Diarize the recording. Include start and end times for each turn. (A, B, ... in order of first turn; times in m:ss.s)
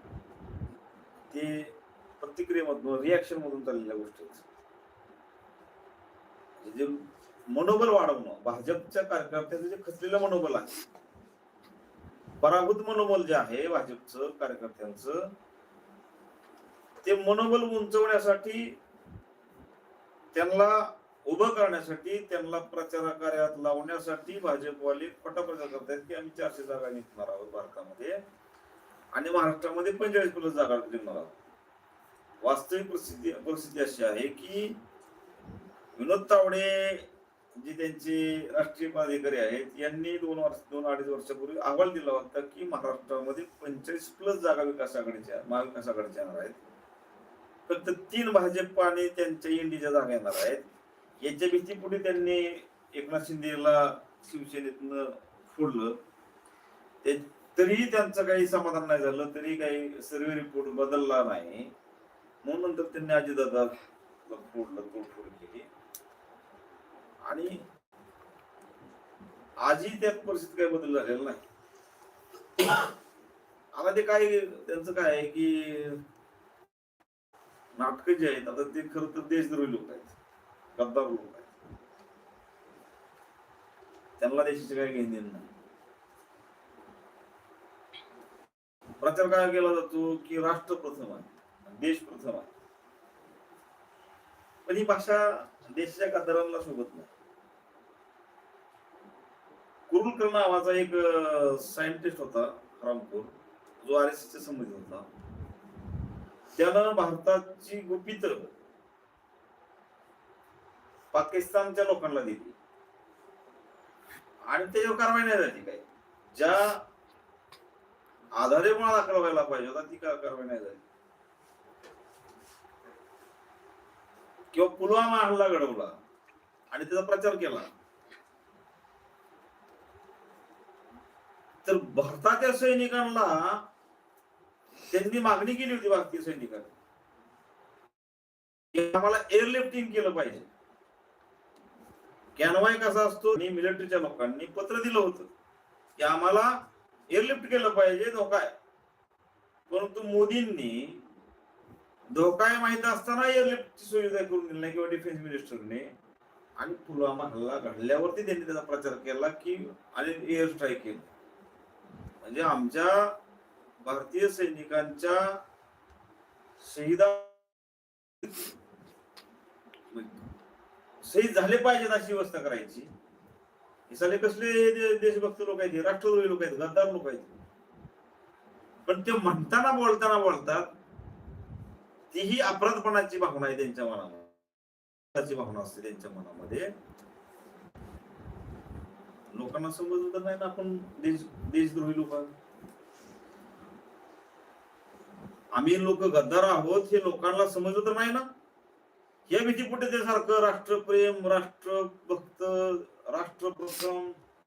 0:01.3-0:04.4 A
0:06.6-0:10.8 A
0:12.4-0:15.3 A
0:17.0-0:18.7 A
0:20.3-0:28.2 A
0:29.1-0:31.4 A
0:32.4-0:34.8 A
0:36.0-0:46.6 A
0:47.7-0:50.6 A
0:51.2-0:56.0 A
0:57.0-1:01.7 A
1:02.4-1:03.8 A
1:04.2-1:05.7 A
1:07.2-1:07.6 A
1:09.6-1:11.4 A
1:13.8-1:16.0 A
1:17.8-1:20.2 A
1:20.8-1:21.5 A
1:24.2-1:25.5 A
1:29.0-1:32.5 A
1:34.7-1:37.1 A
1:39.9-1:45.1 A
1:46.6-1:48.5 A
1:51.1-1:52.6 A
1:54.5-1:56.8 A
1:58.4-2:00.8 A
2:04.5-2:05.9 A
2:06.7-2:07.7 A
2:11.6-2:13.6 A
2:14.9-2:16.7 A
2:18.7-2:20.5 A
2:22.4-2:25.3 A
2:26.0-2:26.5 A
2:27.1-2:28.5 A
2:29.7-2:31.0 A
2:32.1-2:35.9 A
2:36.6-2:41.1 A
2:42.2-2:43.2 A
2:43.8-2:45.4 A
2:46.6-2:47.4 A
2:49.9-2:50.2 A
2:51.0-2:52.9 A
2:53.9-2:57.3 A
2:58.9-3:00.7 A
3:02.1-3:04.3 A
3:05.1-3:06.7 A
3:09.3-3:12.3 A
3:15.5-3:18.3 A
3:19.3-3:24.2 A